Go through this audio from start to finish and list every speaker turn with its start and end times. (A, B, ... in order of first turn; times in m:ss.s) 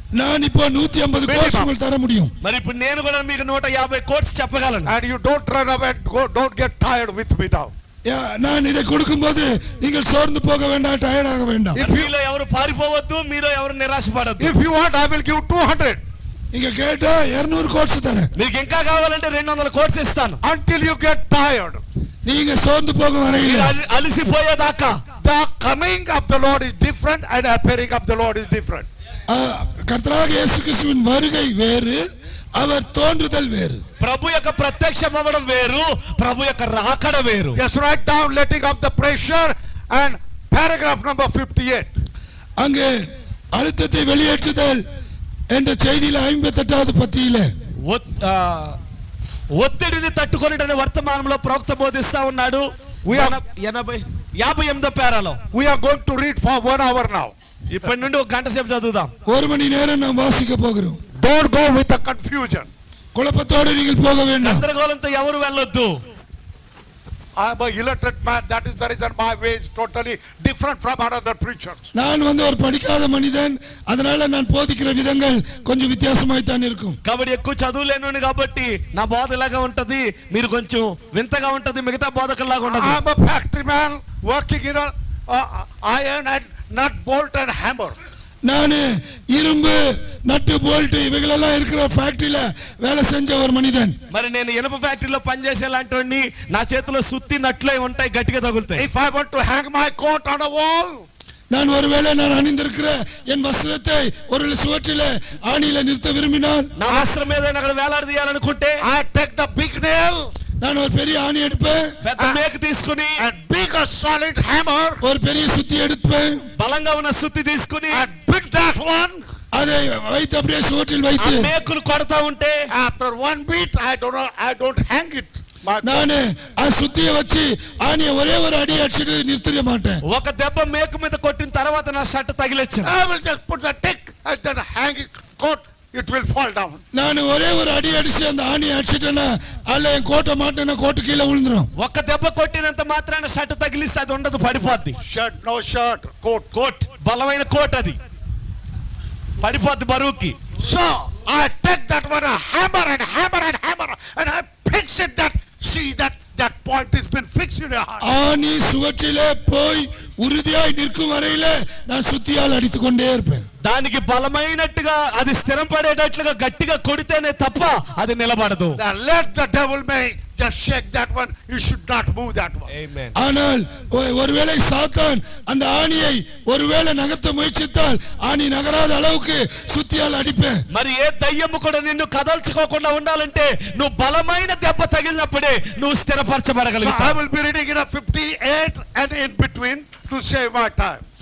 0:00.2-0:02.3 A
0:01.2-0:01.7 B
0:02.4-0:04.9 C
0:04.9-0:07.7 B
0:08.1-0:11.8 A
0:11.7-0:12.1 B
0:11.8-0:14.5 C
0:14.4-0:16.0 B
0:16.5-0:18.3 A
0:18.4-0:20.4 C
0:20.4-0:21.8 B
0:22.3-0:23.8 A
0:23.4-0:25.0 C
0:25.2-0:28.9 B
0:29.3-0:32.0 A
0:32.6-0:33.8 A
0:34.0-0:37.6 C
0:37.6-0:41.9 B
0:42.6-0:43.0 A
0:43.5-0:44.8 A
0:45.5-0:47.5 A
0:47.8-0:48.8 C
0:49.5-0:55.4 C
0:53.1-0:53.4 B
0:55.5-0:57.3 B
0:57.7-0:59.1 C
0:59.3-1:01.0 A
1:01.2-1:02.7 B
1:03.2-1:04.6 A
1:04.4-1:06.0 C
1:07.4-1:11.9 B
1:11.9-1:17.0 A
1:17.0-1:23.0 C
1:22.6-1:28.0 B
1:28.4-1:34.0 A
1:34.1-1:38.8 C
1:38.8-1:41.1 B
1:41.5-1:46.7 A
1:46.8-1:48.8 C
1:48.8-1:50.3 B
1:50.6-1:51.8 A
1:52.0-1:53.2 C
1:53.2-1:55.0 B
1:55.0-1:56.4 A
1:56.6-1:58.0 C
1:57.9-1:59.2 B
1:59.5-2:01.5 A
2:01.2-2:02.6 C
2:02.7-2:06.1 B
2:05.8-2:10.0 A
2:10.0-2:12.9 C
2:12.8-2:16.8 B
2:16.9-2:21.7 A
2:21.8-2:25.0 C
2:25.0-2:26.5 B
2:26.5-2:28.0 C
2:29.4-2:30.4 C
2:30.6-2:38.1 B
2:38.0-2:43.5 A
2:43.6-2:48.8 C
2:48.8-2:52.7 B
2:52.7-2:53.1 C
2:53.2-3:00.6 A
3:00.7-3:07.2 C
3:06.8-3:11.0 B